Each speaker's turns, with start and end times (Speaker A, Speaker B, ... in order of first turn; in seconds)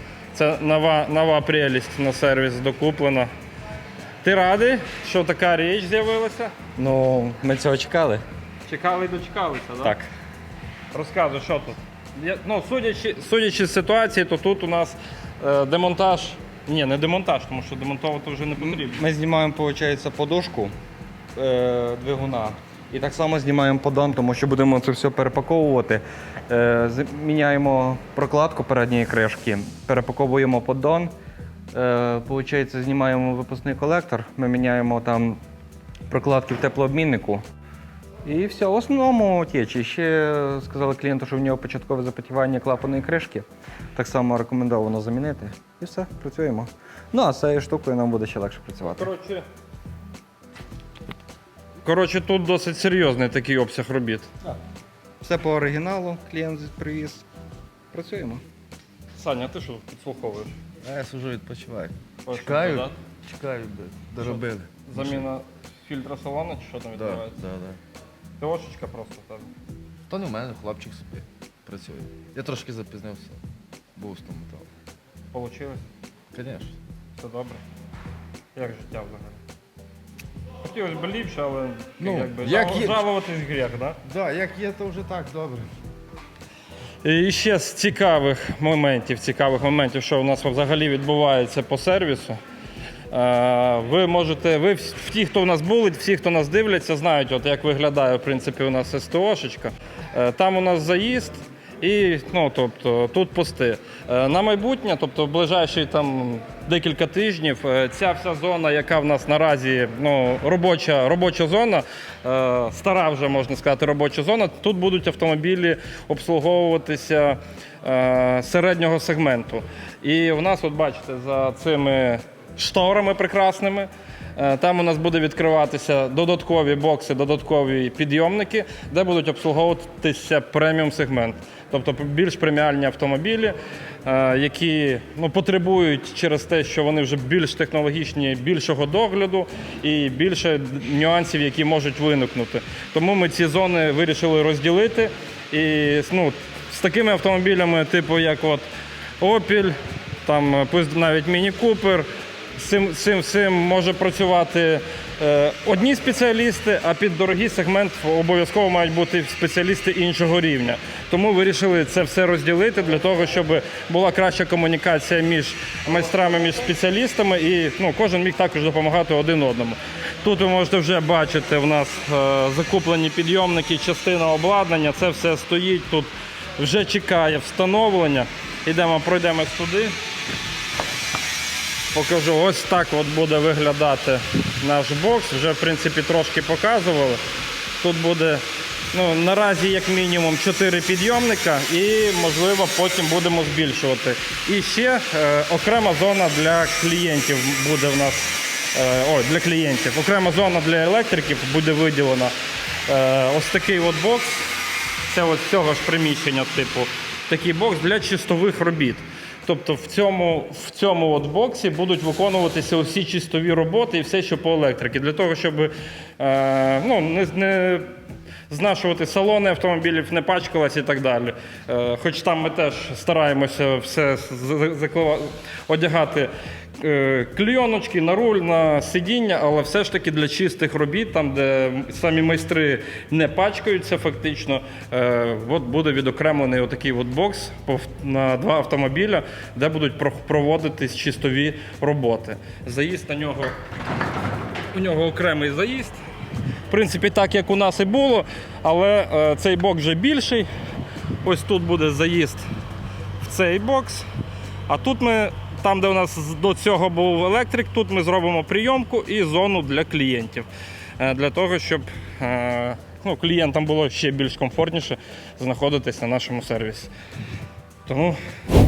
Speaker A: 0.3-3.3, 4.2-6.6, 8.7-10.0, 10.9-19.0, 48.9-49.5, 51.8-54.3, 59.2-60.6, 62.2-62.9, 64.2-67.4, 68.4-69.5, 75.3-75.9, 77.2-77.6, 78.5-79.4, 80.6-84.0, 87.0-92.4, 93.1-148.7, 149.2-179.9, 181.9-187.2, 187.8-202.3, 202.9-204.4, 205.1-217.9, 218.5-243.6, 244.7-246.0, 246.7-250.5, 251.2-252.4, 253.2-254.1, 254.7-260.5, 261.0-266.9, 267.9-268.2
Speaker B: 6.8-8.2, 18.6-20.7, 21.4-31.1, 31.7-35.4, 36.1-37.4, 38.2-49.1, 55.2-57.2, 57.9-58.4
Speaker C: 60.8-62.8, 63.9-64.7, 67.0-67.8, 70.1-73.4, 74.0-74.7, 76.3-76.7, 82.0-82.8, 84.1-85.7